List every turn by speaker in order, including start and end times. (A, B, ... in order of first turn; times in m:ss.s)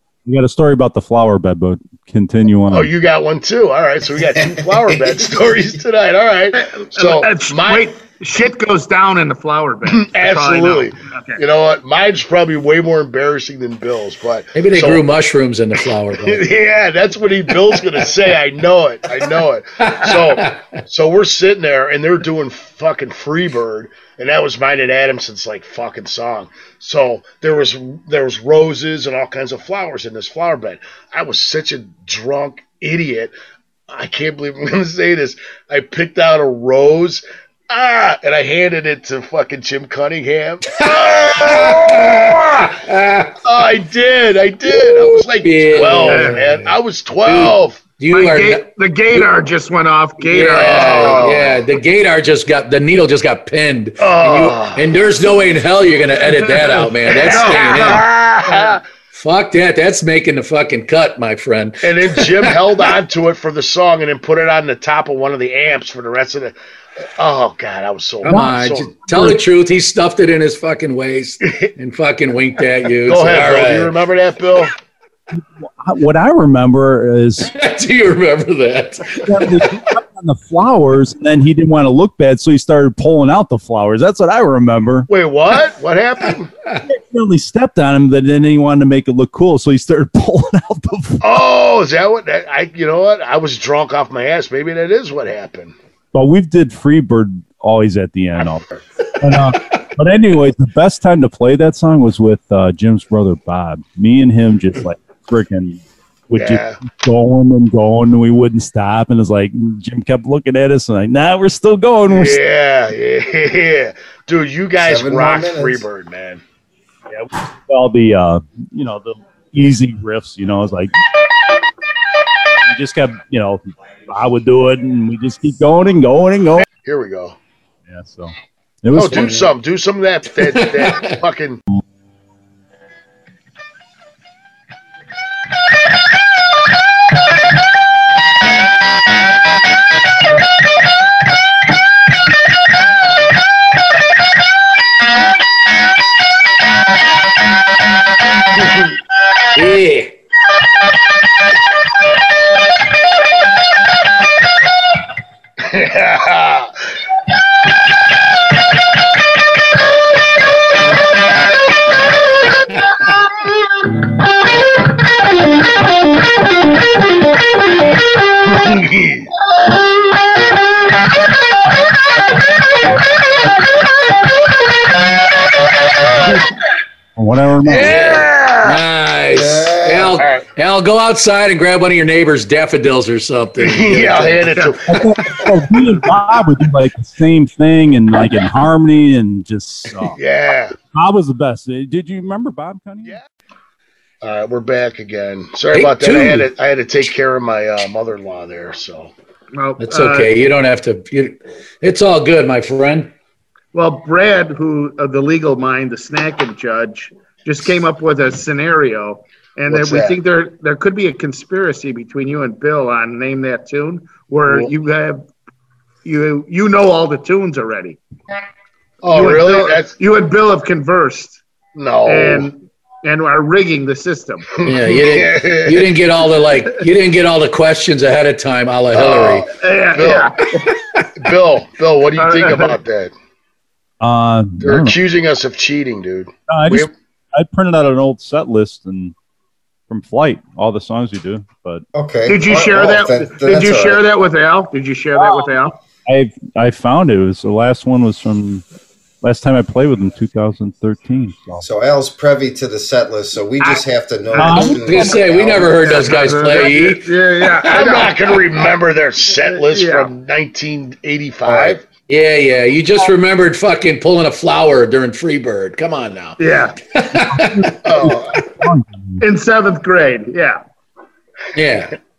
0:00.2-0:02.9 A
0:02.7-0:07.9 B
0:04.3-0:05.2 C
0:06.5-0:11.4 D
0:09.9-0:15.0 B
0:14.5-0:16.4 E
0:16.1-0:33.3 B
0:19.8-0:20.6 E
0:33.9-0:42.8 B
0:40.7-0:43.4 E
0:43.4-0:47.8 B
0:44.7-0:49.3 E
0:46.0-0:46.4 D
0:48.1-0:51.4 D
0:50.3-0:58.0 E
0:50.5-0:51.6 B
0:54.0-0:54.8 B
0:57.1-0:58.8 B
0:57.2-0:58.0 D
0:59.1-1:02.6 E
1:01.8-1:06.5 B
1:07.2-1:08.9 B
1:08.2-1:13.9 E
1:08.3-1:08.5 A
1:09.1-1:09.4 A
1:13.0-1:14.7 B
1:15.3-1:17.5 A
1:17.4-1:19.8 E
1:19.2-1:25.1 A
1:25.1-1:26.5 B
1:26.8-1:31.2 A
1:31.2-1:35.7 B
1:36.1-1:38.6 A
1:38.4-1:38.7 B
1:39.2-1:52.4 A
1:46.4-1:46.8 B
1:52.1-1:56.4 B
1:54.8-1:55.8 C
1:57.1-2:00.9 A
2:02.6-2:06.7 A
2:06.8-2:07.4 B
2:07.9-2:09.5 A
2:08.9-2:11.6 B
2:10.4-2:11.2 E
2:28.6-2:28.8 B
2:29.5-2:30.1 E
2:35.6-2:36.7 B
2:48.4-2:49.3 B
2:57.2-2:58.0 A
2:57.6-2:58.8 B
2:57.8-3:04.7 E
2:59.3-3:00.2 C
3:00.1-3:00.4 B
3:03.6-3:05.5 B
3:04.9-3:10.2 A
3:10.1-3:10.8 B
3:10.9-3:13.2 A
3:14.2-3:19.1 B
3:15.7-3:16.5 E
3:19.5-3:20.3 D
3:19.8-3:23.1 E
3:23.7-3:35.3 D
3:29.7-3:30.2 B
3:36.0-3:38.0 D
3:39.0-3:39.9 B
3:39.1-3:41.4 D
3:41.7-3:42.5 B
3:42.0-3:44.4 D
3:44.6-3:45.9 B
3:44.6-3:49.5 E
3:48.9-3:50.3 B
3:49.5-3:50.5 D
3:50.5-3:51.0 E
3:51.2-3:53.1 B
3:52.2-3:52.8 D
3:54.0-3:55.0 A
3:54.6-3:56.9 B
3:56.5-3:59.1 A
3:59.9-4:01.8 A
4:01.9-4:04.0 C
4:02.3-4:05.8 D
4:05.2-4:08.6 A
4:09.2-4:11.6 A
4:11.6-4:16.0 C
4:14.3-4:14.6 D
4:14.4-4:15.2 A
4:14.5-4:17.7 E
4:15.9-4:18.2 D
4:17.7-4:21.8 B
4:19.4-4:20.1 D
4:21.4-4:21.8 C
4:22.1-4:26.4 E
4:26.4-4:26.8 D
4:26.9-4:27.8 E
4:27.2-4:29.2 A
4:27.8-4:28.4 B
4:29.2-4:30.6 D
4:31.5-4:32.0 E